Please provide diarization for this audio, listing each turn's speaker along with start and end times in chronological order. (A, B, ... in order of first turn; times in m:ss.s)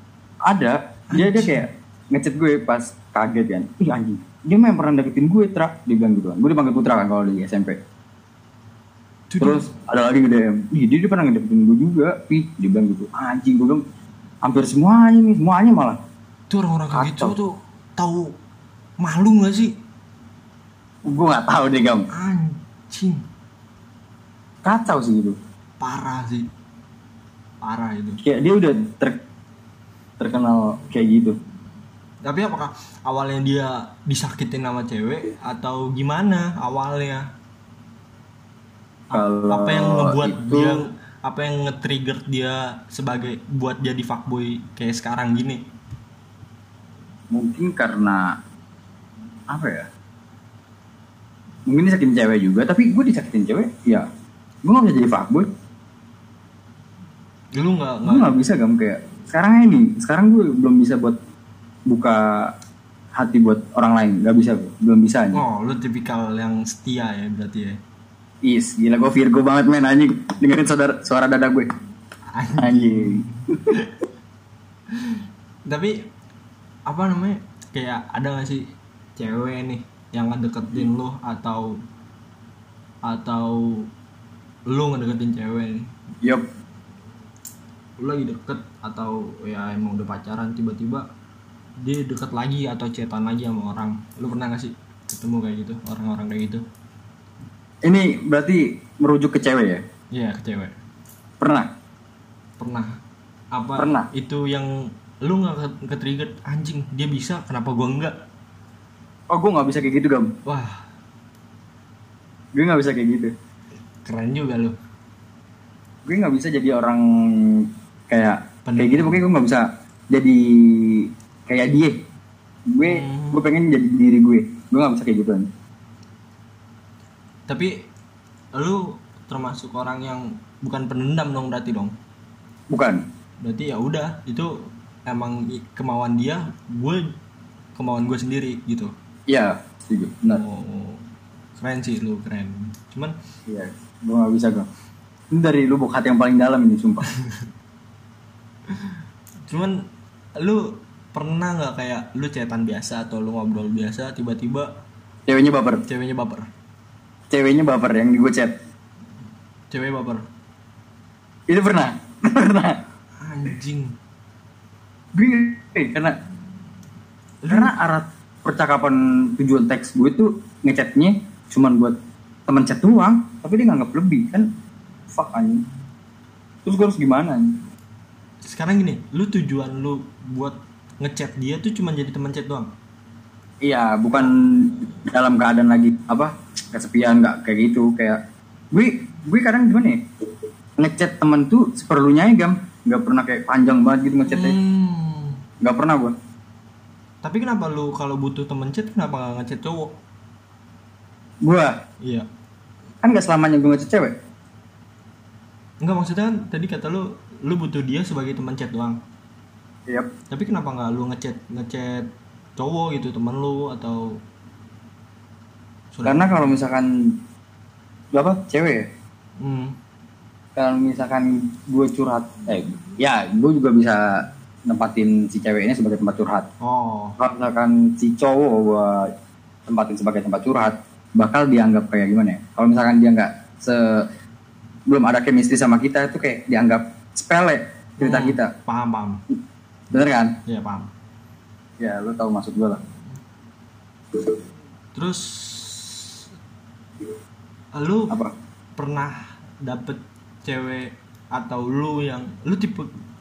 0:00.4-0:07.8 A
0:01.1-0:01.7 B
0:09.3-0:09.7 B
0:09.4-0:13.8 A
0:14.4-0:16.0 A
0:16.5-0:18.3 B
0:16.9-0:17.3 A
0:19.0-0:19.7 B
0:21.0-0:22.1 A
0:22.1-0:23.2 B
0:24.6-0:25.4 A
0:25.8-0:26.5 B
0:27.6-0:28.2 B
0:28.2-0:29.2 A
0:30.2-0:31.4 A
0:32.2-0:37.3 B
0:39.1-0:45.6 B
0:39.1-0:40.8 A
0:47.3-0:48.4 A
0:49.5-0:49.9 A
0:51.7-0:54.1 A
0:54.6-0:55.5 A
0:57.5-0:58.4 B
0:58.0-1:01.2 A
1:01.9-1:02.5 A
1:03.1-1:05.4 A
1:05.3-1:07.8 B
1:08.4-1:11.7 A
1:12.3-1:13.9 B
1:12.6-1:13.8 A
1:14.9-1:16.0 B
1:16.9-1:21.8 B
1:23.0-1:23.9 B
1:24.7-1:25.9 B
1:28.0-1:31.1 B
1:31.8-1:36.6 B
1:37.8-1:39.8 A
1:40.1-1:40.7 B
1:41.4-1:41.7 A
1:42.6-1:43.0 B
1:43.5-1:48.2 B
1:43.8-1:44.1 A
1:49.3-1:50.3 A
1:50.4-1:50.8 B
1:52.5-1:53.3 A
1:54.0-1:54.7 B
1:56.0-2:02.0 A
1:58.6-1:59.2 B
2:02.7-2:05.5 A
2:02.8-2:03.4 B
2:07.5-2:07.9 B
2:08.5-2:11.9 B
2:12.7-2:13.0 A
2:13.4-2:17.1 B
2:17.8-2:18.9 B
2:19.3-2:20.4 A
2:20.3-2:21.0 B
2:21.6-2:23.1 B
2:23.5-2:24.7 A
2:25.3-2:27.1 A
2:28.7-2:29.0 B
2:29.5-2:29.8 B
2:30.4-2:34.7 B
2:35.3-2:35.8 A
2:35.8-2:36.5 B
2:37.3-2:38.5 A
2:39.7-2:40.2 B
2:41.5-2:42.8 A
2:43.2-2:43.9 B
2:45.1-2:46.2 A
2:47.4-2:47.7 B
2:47.5-2:54.5 A
2:55.1-2:55.6 A
2:56.6-2:57.6 A
2:58.4-3:02.7 B
3:03.6-3:10.0 A
3:10.8-3:14.6 A
3:14.3-3:15.4 B
3:15.6-3:16.2 A
3:17.2-3:19.9 B
3:21.4-3:21.8 A
3:22.0-3:22.3 B
3:23.0-3:24.1 A
3:25.8-3:29.0 B
3:30.3-3:34.2 B
3:35.9-3:36.6 B
3:36.0-3:37.1 A
3:38.1-3:38.9 A
3:39.4-3:39.8 B
3:40.6-3:46.5 A
3:46.6-3:47.2 B
3:47.2-3:49.1 A
3:49.6-3:54.1 A
3:54.9-3:58.5 A
3:58.0-3:59.2 B
3:59.9-4:00.4 A
4:00.4-4:00.9 B
4:01.8-4:02.8 A
4:04.9-4:06.2 B
4:07.7-4:08.2 B
4:08.8-4:12.9 B